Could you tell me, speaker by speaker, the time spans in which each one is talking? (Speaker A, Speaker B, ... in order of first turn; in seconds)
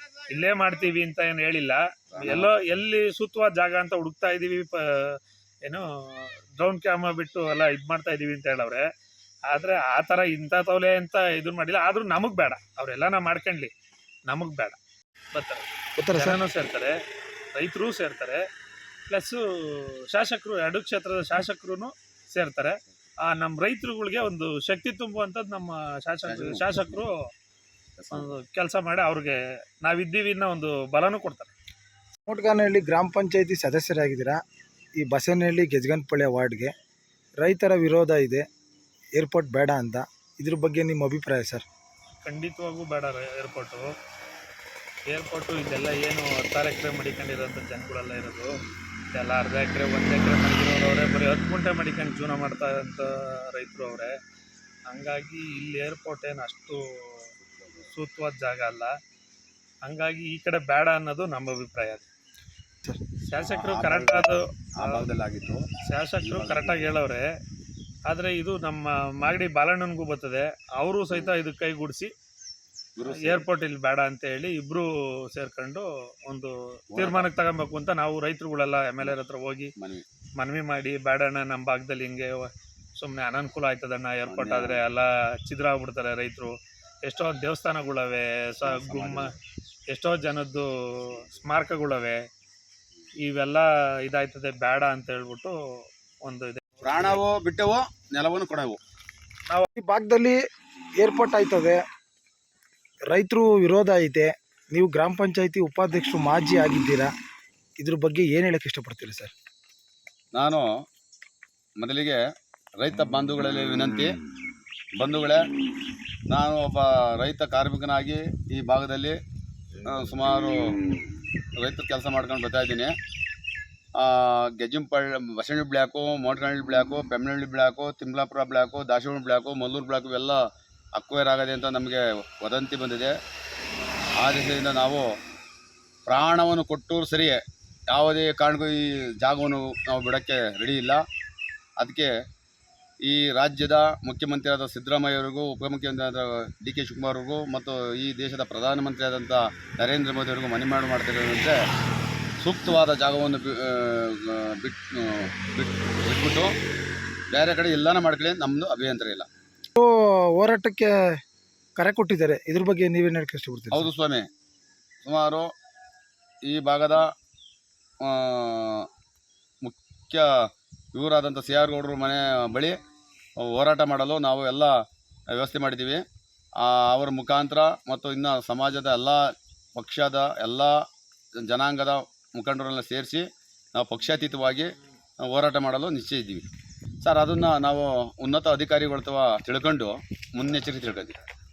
Speaker A: 0.3-8.8, 9.5-13.7, 14.3-14.8, 15.3-16.9, 17.5-18.4, 19.1-27.1, 28.1-31.5, 42.2-43.9, 45.1-48.5, 49.1-54.1, 54.9-57.3, 57.9-58.9, 59.8-62.0, 63.3-65.0, 65.8-67.2, 68.1-72.1, 73.1-79.7, 80.4-89.3, 89.9-92.2, 93.2-95.6, 96.2-97.2
Speaker B: 2.1-2.5, 26.2-27.0, 28.0-28.3, 57.6-57.9, 63.4-65.7, 66.2-67.0, 73.0-73.4, 76.9-77.3, 79.8-80.0, 84.3-84.8, 88.6-89.3, 96.8-98.8, 110.3-110.7, 111.8-112.2, 112.8-114.2, 115.0-115.4, 116.3-119.2, 119.8-120.6, 121.6-122.9, 124.0-130.4, 130.9-133.1, 134.2-135.0, 136.1-137.4, 137.9-141.0, 141.8-142.1, 143.0-151.6, 152.4-156.5, 157.3-159.3, 163.7-164.2, 165.0-165.5, 166.5-167.1, 168.0-168.9, 169.6-170.2, 170.9-172.8, 173.4-174.7, 175.3-176.0, 176.6-179.2, 179.8-180.7, 181.4-183.2, 183.7-184.7, 185.2-186.5, 187.0-191.2
Speaker C: 16.0-16.4, 32.3-34.4, 35.0-36.7, 37.4-38.4, 39.2-41.6, 99.7-100.4, 101.0-101.8, 103.1-107.1, 107.8-109.3, 159.8-160.9, 161.8-163.9